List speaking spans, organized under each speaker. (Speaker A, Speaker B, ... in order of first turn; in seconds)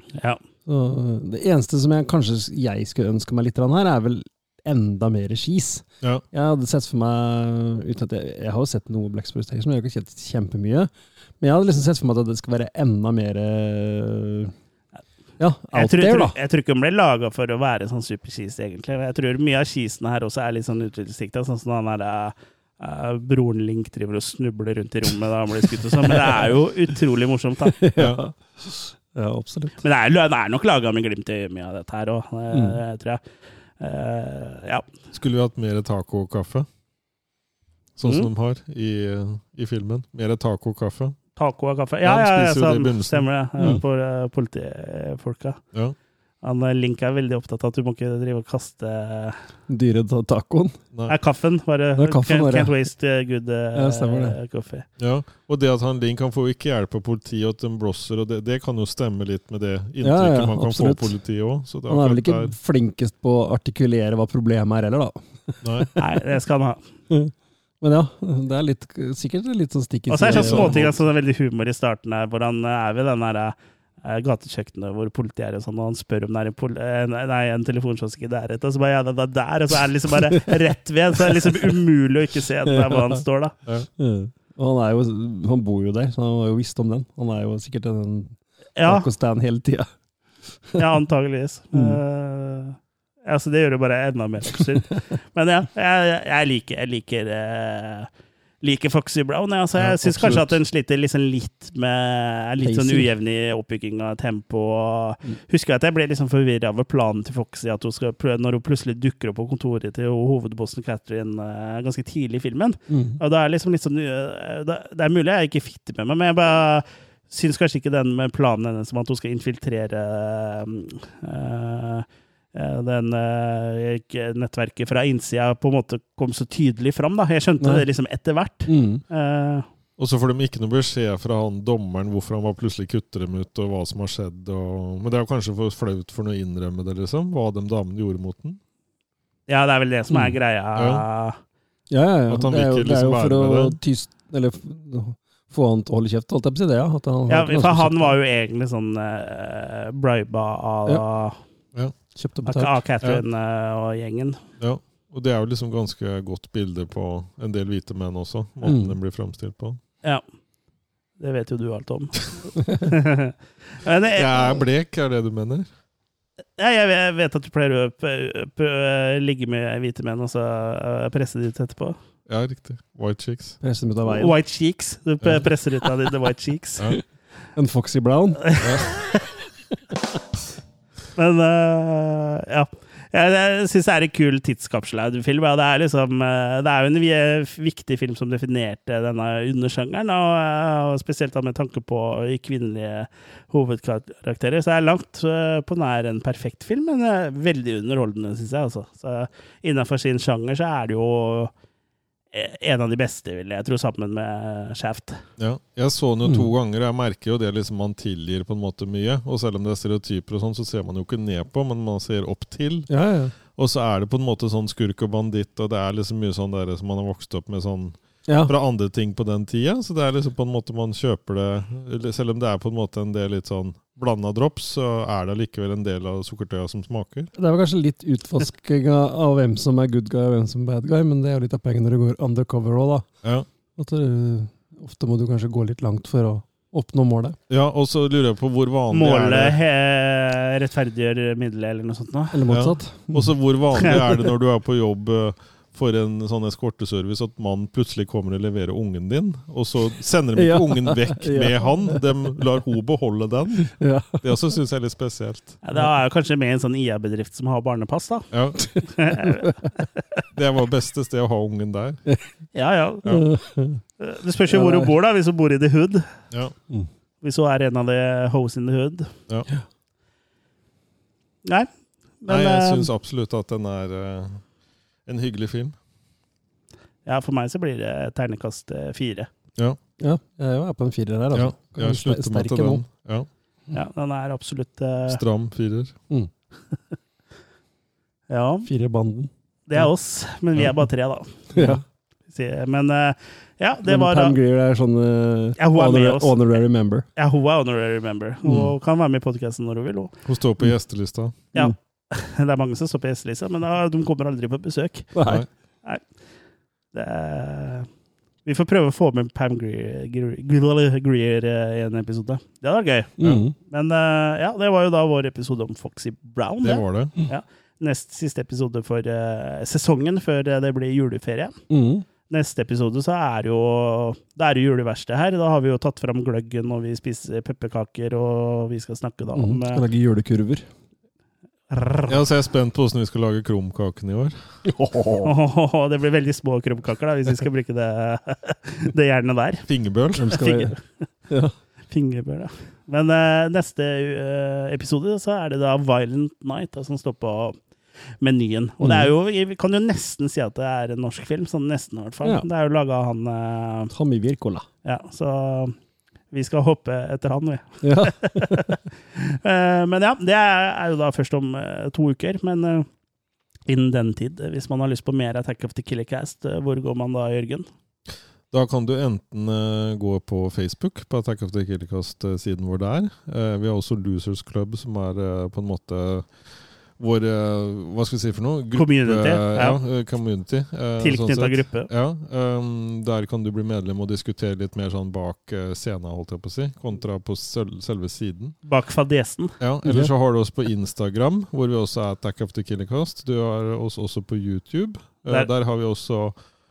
Speaker A: 0.7-14.5, 15.4-16.4, 25.9-26.5, 27.8-29.8, 32.5-32.8, 49.7-50.8, 52.0-52.7, 53.7-54.4, 60.0-61.1, 61.9-65.9, 67.1-71.0, 81.2-81.6, 82.7-83.2, 84.0-89.9, 90.5-90.8, 91.7-92.0, 100.1-100.5, 102.6-103.1, 112.9-113.2, 128.7-129.0, 141.9-148.2, 152.1-152.8, 158.6-158.9, 173.6-174.3, 177.5-178.6, 212.9-213.3, 218.3-218.5, 227.3-233.1, 233.8-237.4, 242.3-244.2, 250.3-252.0, 253.8-254.1, 263.1-263.8, 264.5-264.9, 280.0-282.8, 288.6-289.9, 291.5-291.8, 293.8-297.1, 305.1-305.4, 313.2-313.5, 321.7-322.1, 329.3-330.6, 334.6-335.3, 340.1-340.7, 341.3-341.5, 348.8-349.1, 353.9-354.7, 357.8-358.8, 389.8-390.1
Speaker B: 15.7-27.8, 29.8-33.2, 33.8-34.9, 41.4-45.6, 46.4-49.4, 51.1-54.9, 66.0-66.8, 70.1-83.5, 88.8-89.1, 90.8-98.1, 98.6-129.7, 139.5-141.4, 147.3-151.4, 152.4-154.4, 161.2-164.2, 166.6-172.0, 174.1-176.8, 178.5-178.9, 181.1-201.5, 202.3-205.2, 238.9-242.4, 255.6-259.5, 262.5-263.3, 264.0-266.1, 267.2-269.1, 272.2-272.9, 277.1-279.3, 283.7-285.2, 288.3-288.7, 289.7-291.5, 292.3-294.3, 295.6-296.4, 297.1-300.1, 301.5-305.1, 306.9-307.9, 308.4-321.6, 322.3-329.8, 331.7-332.1, 335.2-339.6, 340.3-341.1, 341.9-347.6, 348.2-353.9, 354.8-355.7, 356.3-362.9, 363.7-367.7, 378.7-379.8, 381.0-381.9, 388.6-389.5
Speaker C: 27.9-28.2, 35.1-36.7, 38.0-41.2, 42.0-43.8, 55.0-62.5, 65.6-65.9, 70.2-70.9, 99.8-100.4, 130.0-138.6, 140.7-141.0, 142.3-143.8, 154.6-159.8, 164.2-165.7, 172.3-173.6, 205.4-227.3, 237.5-239.6, 242.5-255.6, 258.3-258.8, 260.3-262.0, 272.3-274.5, 275.0-275.8, 281.3-283.3, 285.1-285.9, 300.2-301.3, 316.6-317.1, 332.1-334.5, 339.7-340.4, 368.5-388.6, 389.6-396.4